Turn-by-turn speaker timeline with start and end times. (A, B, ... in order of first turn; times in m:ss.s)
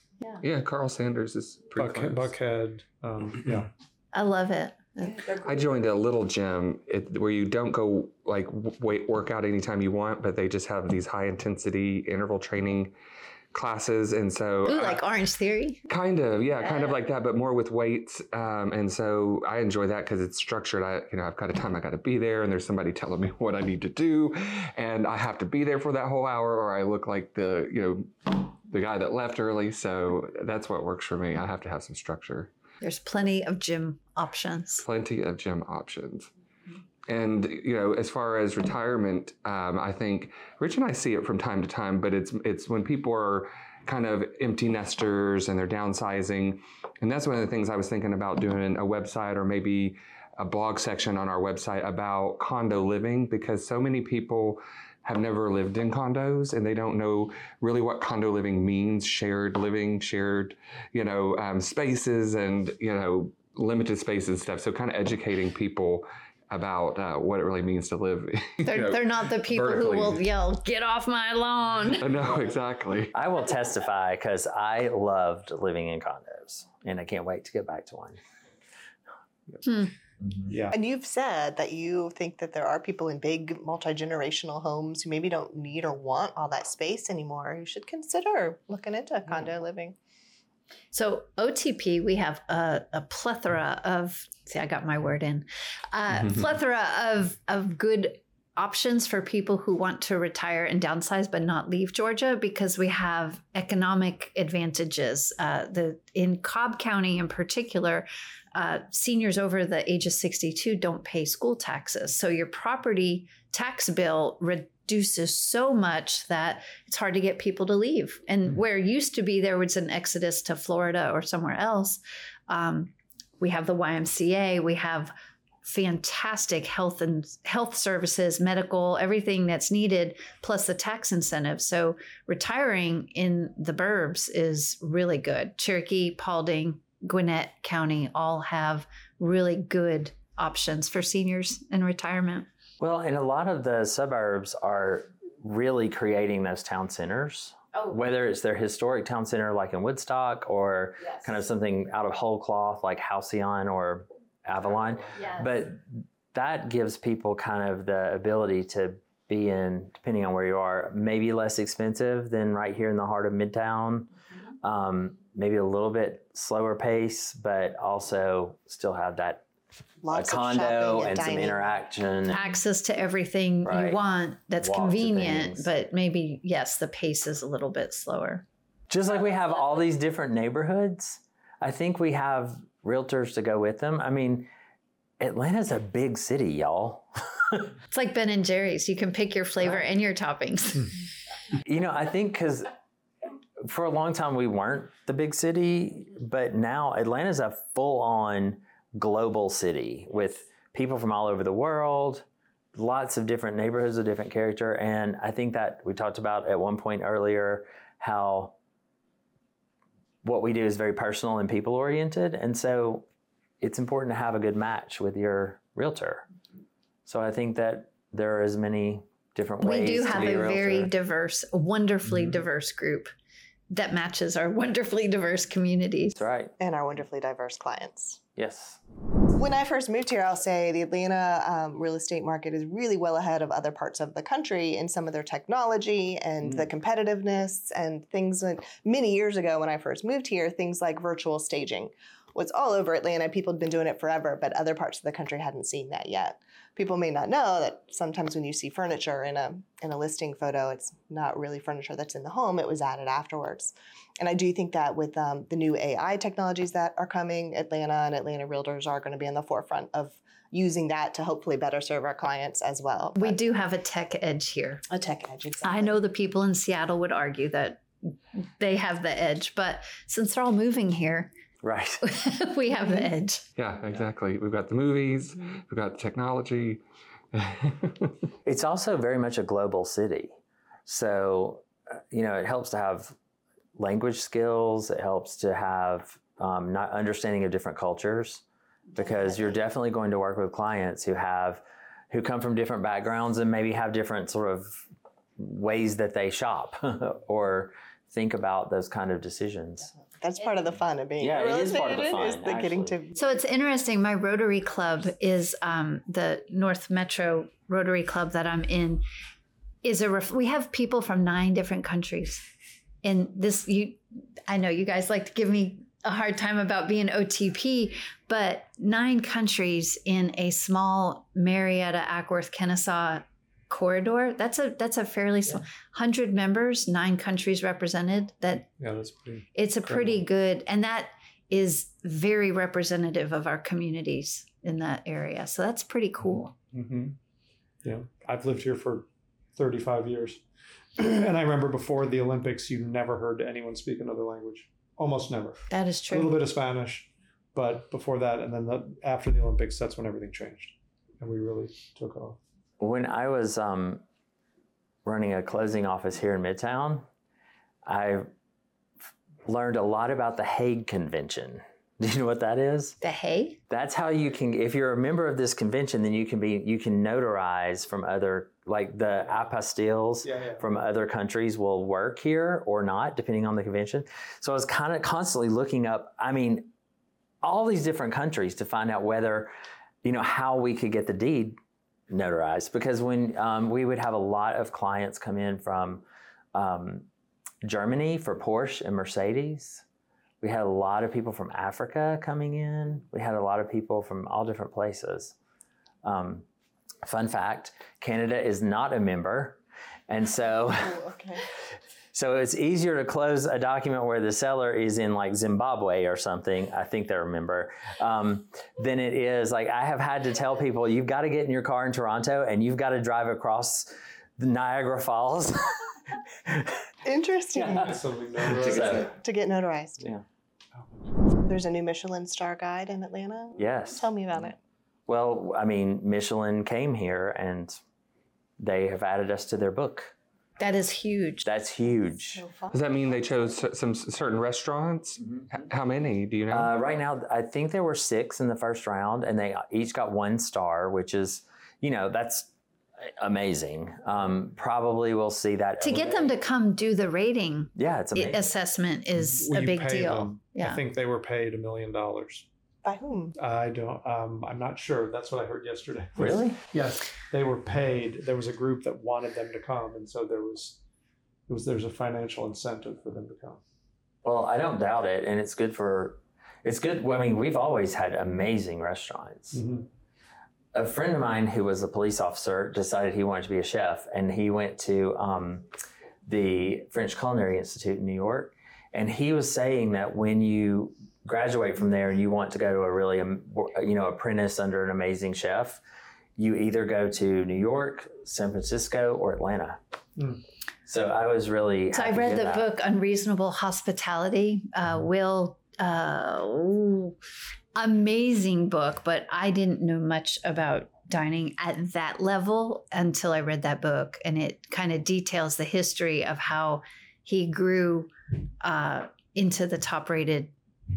0:00.4-0:02.3 A
0:01.8-0:03.7 B
0:04.1-0:05.4 C
0:05.4-0:12.9 A
0:13.5-0:15.0 A
0:14.6-0:15.8 C
0:15.9-0:32.5 A
0:32.8-0:34.8 C
0:34.8-0:36.3 A
0:37.1-1:10.2 A
1:08.6-1:12.0 C
1:12.0-1:13.1 A
1:13.1-1:18.2 D
1:19.6-1:19.9 C
1:20.5-1:20.8 B
1:20.7-1:30.0 E
1:30.9-2:22.5 C
2:22.8-2:44.1 D
2:35.2-2:35.5 C
2:44.6-2:49.4 D
2:50.0-2:51.7 E
2:50.1-2:52.4 D
2:52.3-2:58.4 C
2:53.6-2:54.0 D
2:54.6-2:55.7 D
2:58.9-3:04.5 D
3:05.2-3:07.7 D
3:07.9-3:10.9 C
3:11.6-3:12.7 D
3:13.6-3:28.5 D
3:30.2-3:33.0 D
3:33.6-3:36.2 D
3:37.0-3:40.9 D
3:39.6-3:43.1 C
3:43.7-3:46.2 C
3:46.1-3:46.5 D
3:46.6-3:48.2 E
3:48.4-3:48.8 D
3:49.3-4:23.4 E
4:23.2-4:24.8 C
4:24.9-4:26.0 E
4:25.6-4:31.3 C
4:31.6-4:32.0 D
4:32.0-4:33.4 C
4:33.6-4:36.8 A
4:37.3-4:38.1 A
4:38.4-4:43.2 D
4:43.8-4:48.4 D
4:48.9-4:59.9 D
5:00.2-5:03.2 E
5:01.2-5:02.9 D
5:03.1-5:09.0 C
5:09.8-5:12.4 C
5:13.0-5:28.7 C
5:28.8-5:30.2 B
5:29.5-5:36.5 C
5:36.7-5:37.2 B
5:37.8-5:40.4 B
5:41.0-5:52.4 B
5:45.7-5:46.4 C
5:52.8-5:54.0 D
5:55.0-5:57.0 D
5:57.8-5:58.3 D
5:59.4-6:03.0 D
6:03.0-6:03.6 C
6:03.7-6:16.7 D
6:10.2-6:10.6 B
6:17.4-6:19.5 D
6:20.0-6:21.6 D
6:22.1-6:27.1 D
6:27.6-6:29.8 D
6:30.4-6:35.3 D
6:36.0-6:36.4 D
6:37.0-6:41.0 D
6:40.9-6:41.4 E
6:42.1-6:55.8 D
6:56.4-6:56.8 D
6:57.0-7:00.0 E
6:57.5-6:59.1 D
6:57.6-6:59.1 B
7:00.0-7:00.2 D
7:01.4-7:04.6 E
7:03.6-7:04.0 D
7:05.1-7:07.8 D
7:08.6-7:10.1 D
7:10.6-7:11.4 C
7:11.4-7:12.4 D
7:12.3-7:13.6 E
7:12.7-7:16.7 A
7:15.2-7:15.5 D
7:16.5-7:22.5 D
7:23.0-7:26.3 D
7:25.8-7:30.8 C
7:27.8-7:28.5 D
7:29.1-7:32.5 B
7:32.8-7:33.3 E
7:33.4-7:40.8 B
7:36.2-7:36.6 D
7:41.5-7:43.6 B
7:44.2-7:49.6 D
7:49.5-7:49.9 B
7:50.7-7:55.7 D
7:56.3-8:05.8 D
8:06.4-8:09.8 D
8:10.2-8:10.4 B
8:10.8-8:12.7 D
8:11.9-8:17.1 C
8:17.7-8:28.1 C
8:28.6-8:30.5 C